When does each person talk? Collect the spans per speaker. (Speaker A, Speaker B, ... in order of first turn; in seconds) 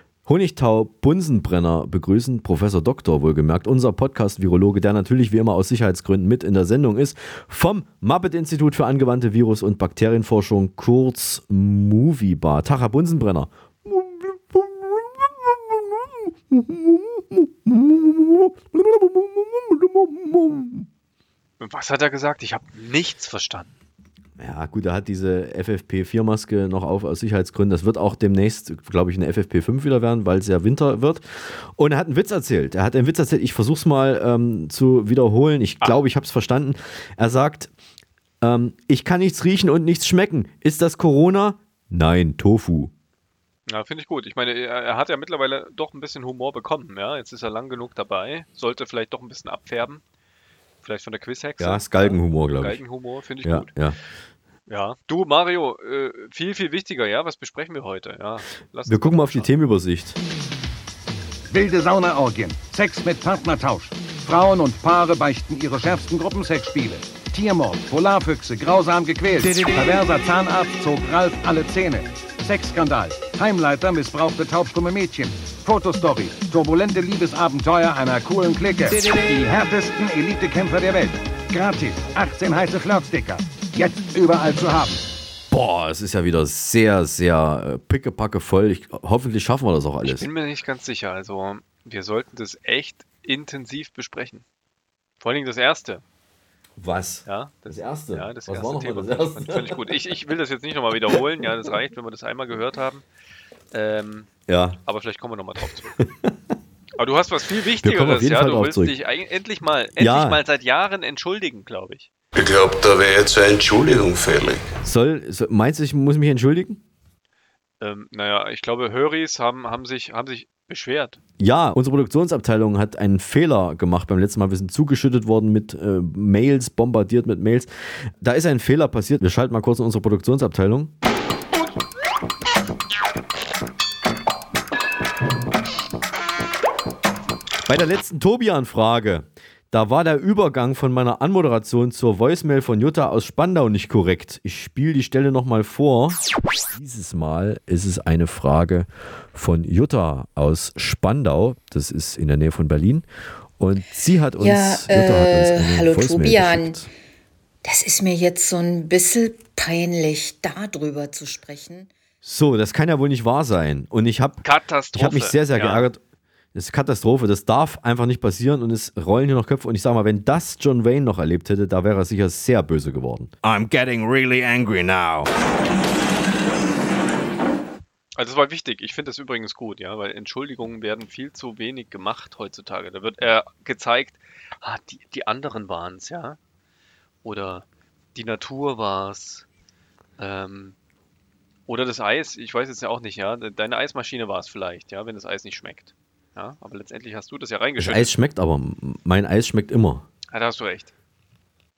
Speaker A: 0.2-20.9, 24.4-37.7, 38.4-42.9, 51.6-52.8, 53.4-54.0, 58.9-60.2, 85.5-90.3, 96.8-99.9, 104.5-104.8, 106.1-106.3, 107.8-108.9, 110.0-110.4, 114.8-116.8, 121.4-127.7, 128.2-130.9, 137.7-146.2, 146.7-153.0, 153.6-156.9, 162.2-166.0, 166.5-175.3, 197.8-200.1
Speaker B: 21.6-23.7, 43.7-50.0, 50.8-53.7, 54.7-59.5, 90.0-94.4, 95.2-96.0, 97.2-103.0, 103.7-104.3, 104.8-106.0, 107.0-112.1, 117.8-121.2, 164.4-165.9, 178.1-186.4, 187.2-189.5, 190.2-190.8, 191.7-198.2, 200.3-200.9
Speaker C: 61.5-85.0
Speaker D: 112.4-114.4
Speaker E: 154.4-156.8, 157.6-161.9